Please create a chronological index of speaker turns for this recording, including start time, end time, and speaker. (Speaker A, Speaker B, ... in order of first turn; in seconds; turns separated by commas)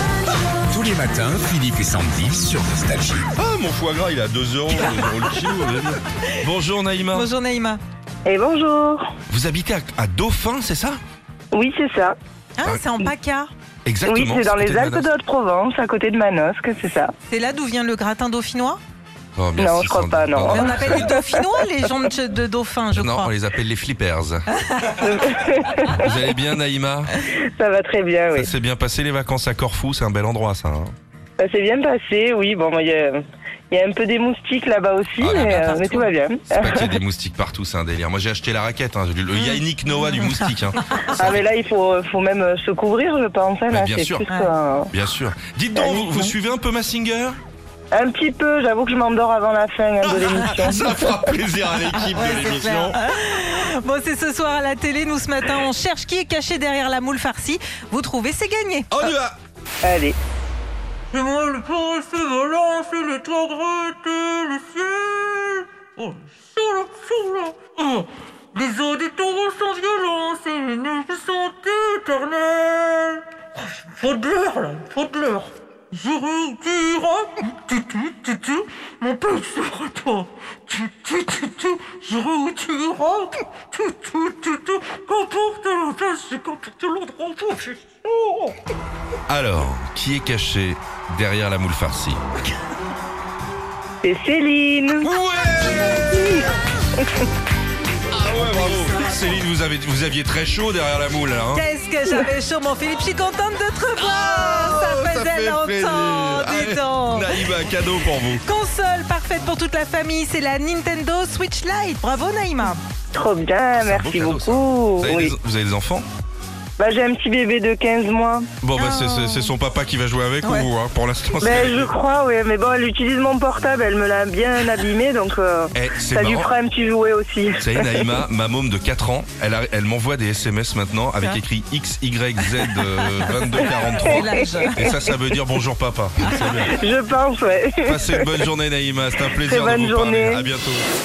Speaker A: 0.7-3.3, Speaker B: 3.4-7.3, Speaker C: 4.7-5.6, Speaker C: 7.1-7.8, Speaker D: 8.2-9.1, Speaker B: 9.3-11.0, Speaker D: 11.5-12.2, Speaker C: 12.6-13.5, Speaker B: 13.8-15.1, Speaker D: 14.1-17.1, Speaker C: 17.3-18.8, Speaker B: 19.4-21.1, Speaker D: 19.6-21.4, Speaker C: 20.5-23.3, Speaker B: 22.9-24.4, Speaker C: 24.5-24.9, Speaker D: 25.0-26.1, Speaker B: 25.9-27.1, Speaker D: 27.2-28.5, Speaker B: 28.3-30.9, Speaker D: 31.4-37.0, Speaker B: 35.2-41.4, Speaker C: 35.3-36.1, Speaker C: 39.4-41.1, Speaker D: 41.1-44.9, Speaker B: 43.7-44.2, Speaker B: 44.9-47.4, Speaker D: 45.8-46.3, Speaker D: 47.9-51.2, Speaker B: 50.0-53.0, Speaker C: 51.9-59.1, Speaker B: 58.9-59.4, Speaker D: 59.8-60.2, Speaker E: 61.1-73.2, Speaker E: 73.8-87.8, Speaker B: 89.3-92.2, Speaker D: 94.0-95.1, Speaker B: 95.0-96.3, Speaker D: 96.1-96.5, Speaker B: 98.1-101.7, Speaker C: 101.5-107.4, Speaker B: 104.0-108.4, Speaker C: 108.4-112.8, Speaker D: 113.1-115.3, Speaker B: 113.8-116.1, Speaker D: 116.8-118.5, Speaker B: 118.6-121.9, Speaker C: 118.8-119.5, Speaker C: 120.4-120.7, Speaker D: 121.4-128.1, Speaker B: 125.7-126.5, Speaker B: 127.6-136.8, Speaker C: 133.0-134.9, Speaker D: 134.1-134.7, Speaker D: 136.5-138.3, Speaker B: 137.8-140.9, Speaker D: 139.4-140.5